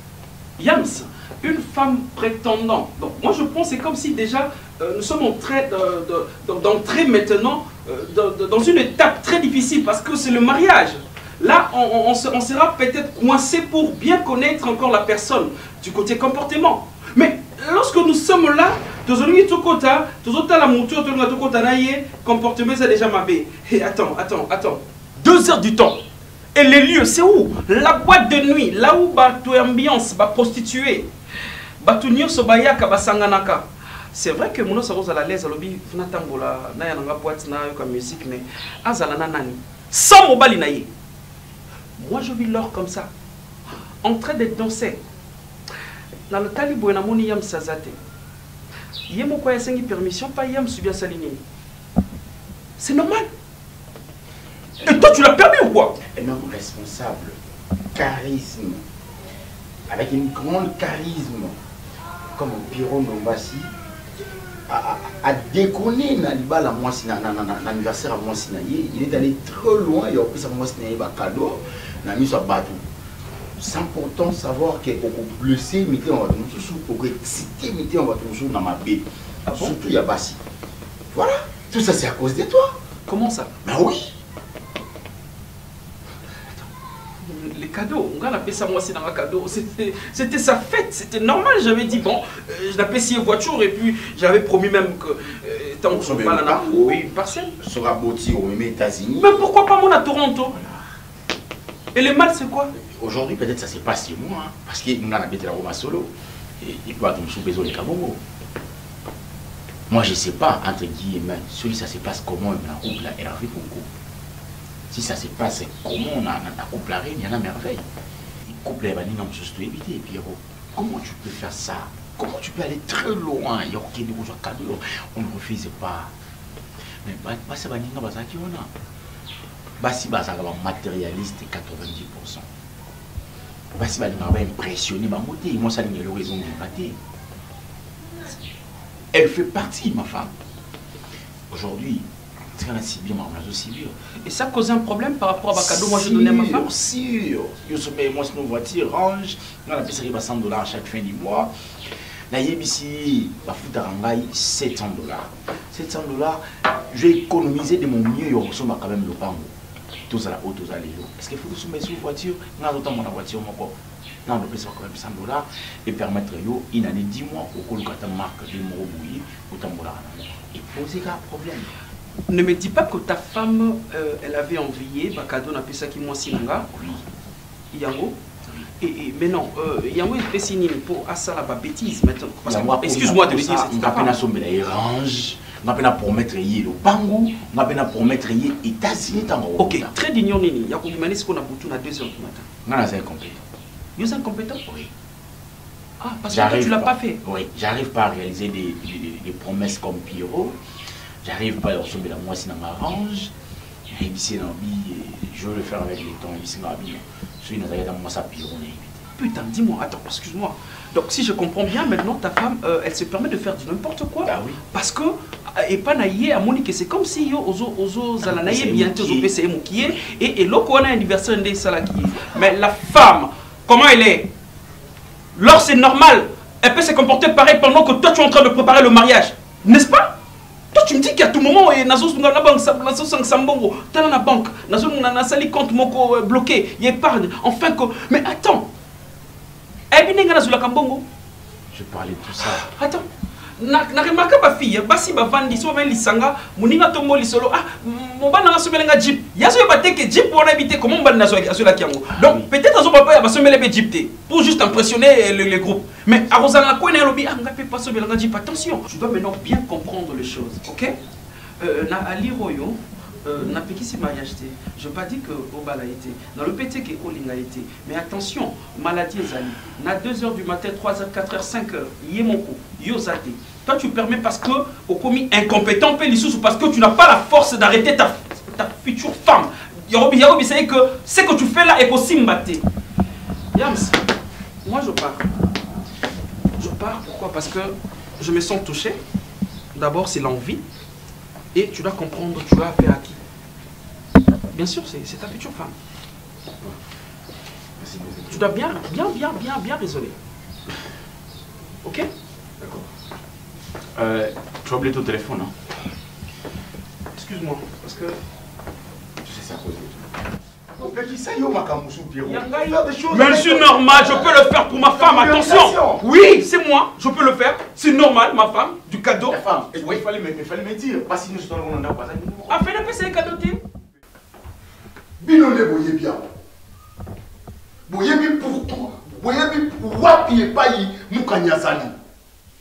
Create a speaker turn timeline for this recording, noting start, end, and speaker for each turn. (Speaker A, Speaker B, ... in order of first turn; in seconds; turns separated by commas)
Speaker A: 0.6-26.0, Speaker A: 26.5-31.1, Speaker A: 31.8-40.9, Speaker A: 42.0-43.1, Speaker A: 44.0-45.0, Speaker A: 46.3-48.0, Speaker A: 49.1-51.4, Speaker A: 52.8-53.3, Speaker A: 54.8-56.0, Speaker B: 56.0-57.4, Speaker B: 57.9-58.8, Speaker B: 59.9-61.5, Speaker B: 62.3-63.7, Speaker B: 64.7-72.8, Speaker B: 73.6-80.4, Speaker A: 79.5-79.7, Speaker B: 81.1-82.8, Speaker A: 83.1-83.5, Speaker B: 83.6-84.1, Speaker A: 87.2-97.5, Speaker B: 95.9-97.0, Speaker B: 97.6-99.4, Speaker A: 99.2-100.5, Speaker B: 100.5-100.8, Speaker A: 101.9-102.7, Speaker B: 102.7-108.2, Speaker B: 109.9-113.9, Speaker B: 114.9-117.8, Speaker B: 118.4-126.1, Speaker B: 127.0-128.7, Speaker B: 129.8-132.5, Speaker B: 133.8-137.0, Speaker B: 139.1-140.3, Speaker B: 141.5-143.9, Speaker A: 144.2-146.7, Speaker B: 145.5-151.5, Speaker B: 152.3-159.5, Speaker B: 160.1-171.7, Speaker A: 172.3-176.7, Speaker B: 176.7-177.0, Speaker A: 177.7-178.2, Speaker A: 178.8-184.1, Speaker B: 182.4-189.9, Speaker A: 189.6-192.5, Speaker B: 192.6-193.4, Speaker A: 194.0-194.6, Speaker B: 194.7-194.9, Speaker A: 196.0-197.2, Speaker B: 196.3-200.6, Speaker B: 201.2-203.3, Speaker B: 203.9-209.0, Speaker A: 209.2-224.3, Speaker B: 214.2-214.6, Speaker B: 218.2-219.3, Speaker A: 225.3-230.1, Speaker A: 230.7-238.7, Speaker A: 239.9-241.0, Speaker B: 241.7-242.7, Speaker A: 242.6-243.0, Speaker A: 243.6-260.9, Speaker B: 252.1-252.5, Speaker A: 261.6-282.6, Speaker A: 283.5-284.0, Speaker A: 284.6-285.2, Speaker A: 286.6-289.0, Speaker A: 289.7-290.6, Speaker A: 291.5-293.2, Speaker A: 294.5-295.7, Speaker B: 297.8-298.5, Speaker A: 298.3-300.2, Speaker B: 302.6-302.9, Speaker B: 303.9-305.5, Speaker A: 307.1-308.2, Speaker B: 309.2-310.1, Speaker B: 310.8-316.1, Speaker A: 312.2-320.0, Speaker B: 319.3-322.6, Speaker A: 322.5-323.6, Speaker C: 325.2-326.2, Speaker C: 327.9-331.9